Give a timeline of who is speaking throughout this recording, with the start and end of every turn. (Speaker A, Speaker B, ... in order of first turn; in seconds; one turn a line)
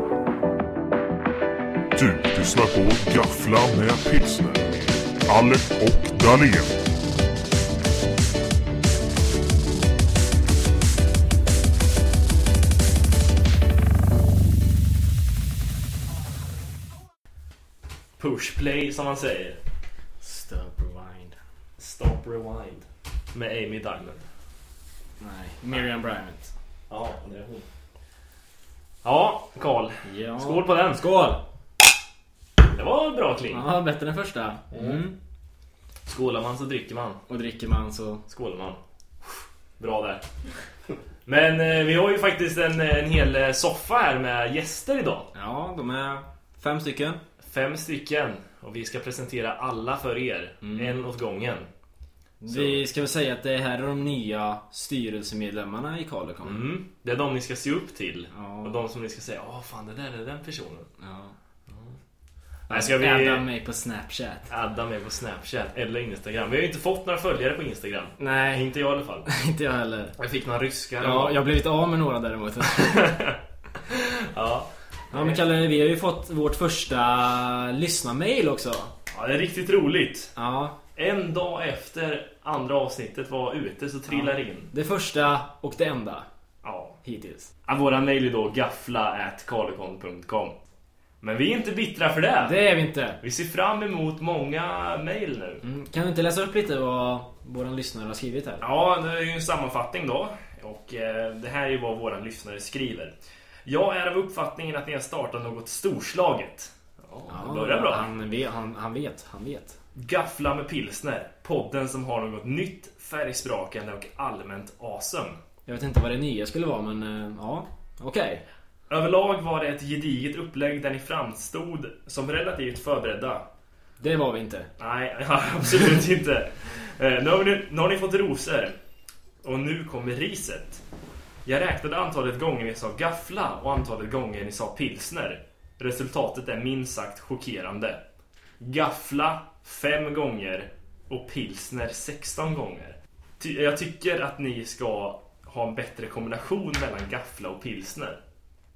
Speaker A: 1.9-6.8
Speaker B: 18.2-19.6
Speaker C: 20.2-21.4
Speaker B: 21.8-24.2
Speaker C: 25.2-26.5
Speaker B: 26.9-27.6
Speaker B: 29.0-31.0
Speaker C: 30.0-31.4
Speaker B: 32.7-33.6
Speaker C: 33.5-35.1
Speaker B: 34.7-35.0
Speaker B: 36.1-37.2
Speaker C: 37.3-38.2
Speaker B: 38.3-40.3
Speaker B: 41.3-45.3
Speaker C: 45.4-47.2
Speaker B: 47.5-51.7
Speaker C: 50.6-51.0
Speaker C: 52.4-56.6
Speaker B: 52.5-52.8
Speaker B: 56.4-60.9
Speaker C: 58.3-58.8
Speaker C: 61.0-61.3
Speaker B: 62.7-63.5
Speaker C: 62.7-64.5
Speaker B: 64.5-69.3
Speaker C: 68.2-68.7
Speaker C: 69.3-70.1
Speaker B: 70.2-71.4
Speaker C: 71.0-73.1
Speaker B: 72.7-75.4
Speaker C: 75.1-78.9
Speaker B: 79.1-80.3
Speaker C: 80.4-80.8
Speaker B: 81.0-84.7
Speaker C: 84.1-86.3
Speaker B: 86.6-87.0
Speaker C: 87.0-87.5
Speaker B: 87.7-90.5
Speaker B: 91.2-92.5
Speaker C: 92.4-93.2
Speaker B: 93.2-95.6
Speaker C: 95.6-98.6
Speaker B: 98.6-108.1
Speaker C: 107.3-109.8
Speaker B: 110.0-115.4
Speaker C: 115.7-118.4
Speaker B: 118.9-123.5
Speaker C: 124.0-124.7
Speaker B: 124.8-128.7
Speaker B: 129.4-130.8
Speaker B: 131.4-138.0
Speaker B: 138.6-148.2